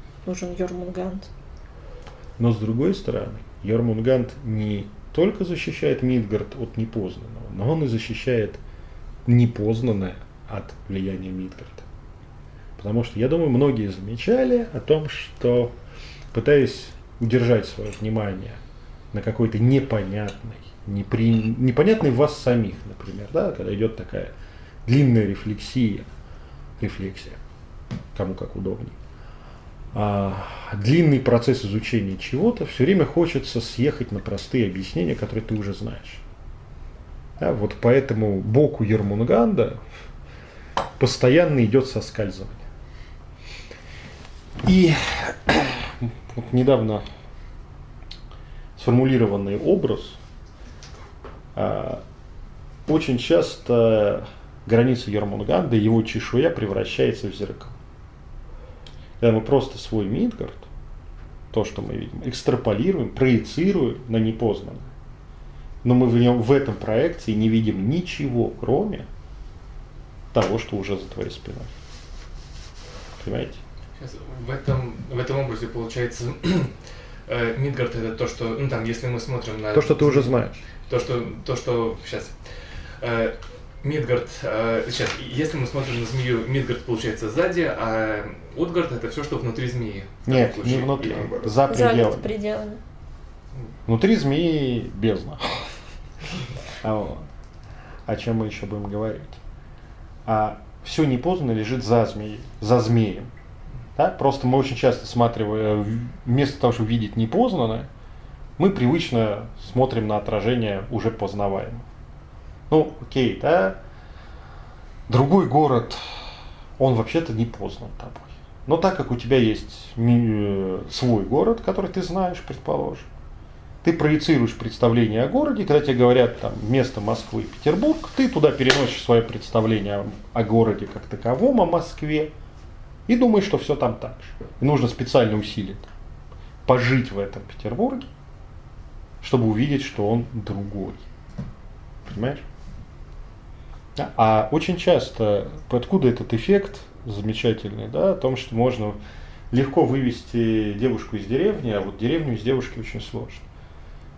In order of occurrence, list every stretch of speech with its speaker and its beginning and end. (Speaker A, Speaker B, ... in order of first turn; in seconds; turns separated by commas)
Speaker A: 0.2-1.3, Speaker B: 2.4-8.6, Speaker B: 9.3-11.9, Speaker B: 12.8-15.7, Speaker B: 16.3-18.6, Speaker B: 19.1-24.3, Speaker B: 24.9-26.1, Speaker B: 26.8-27.4, Speaker B: 28.1-29.0, Speaker B: 29.9-36.2, Speaker B: 37.4-39.8, Speaker B: 41.0-42.6, Speaker B: 44.6-47.0, Speaker B: 48.8-50.2, Speaker B: 51.5-52.0, Speaker B: 52.9-57.7, Speaker B: 59.2-60.7, Speaker B: 61.5-64.9, Speaker B: 65.8-69.1, Speaker B: 70.3-71.7, Speaker B: 73.2-73.6, Speaker C: 74.0-82.3, Speaker B: 79.7-80.6, Speaker C: 83.0-91.5, Speaker B: 90.3-92.3, Speaker A: 91.6-92.8, Speaker B: 93.9-95.7, Speaker B: 96.8-97.3, Speaker B: 98.1-99.4, Speaker B: 100.3-103.3, Speaker B: 104.0-107.9, Speaker B: 108.6-111.8, Speaker B: 112.7-113.8, Speaker B: 115.1-123.1, Speaker B: 123.8-132.3, Speaker B: 133.1-135.9, Speaker B: 136.7-138.1, Speaker B: 139.2-141.0, Speaker B: 142.1-142.4, Speaker B: 144.0-149.0, Speaker B: 149.5-153.4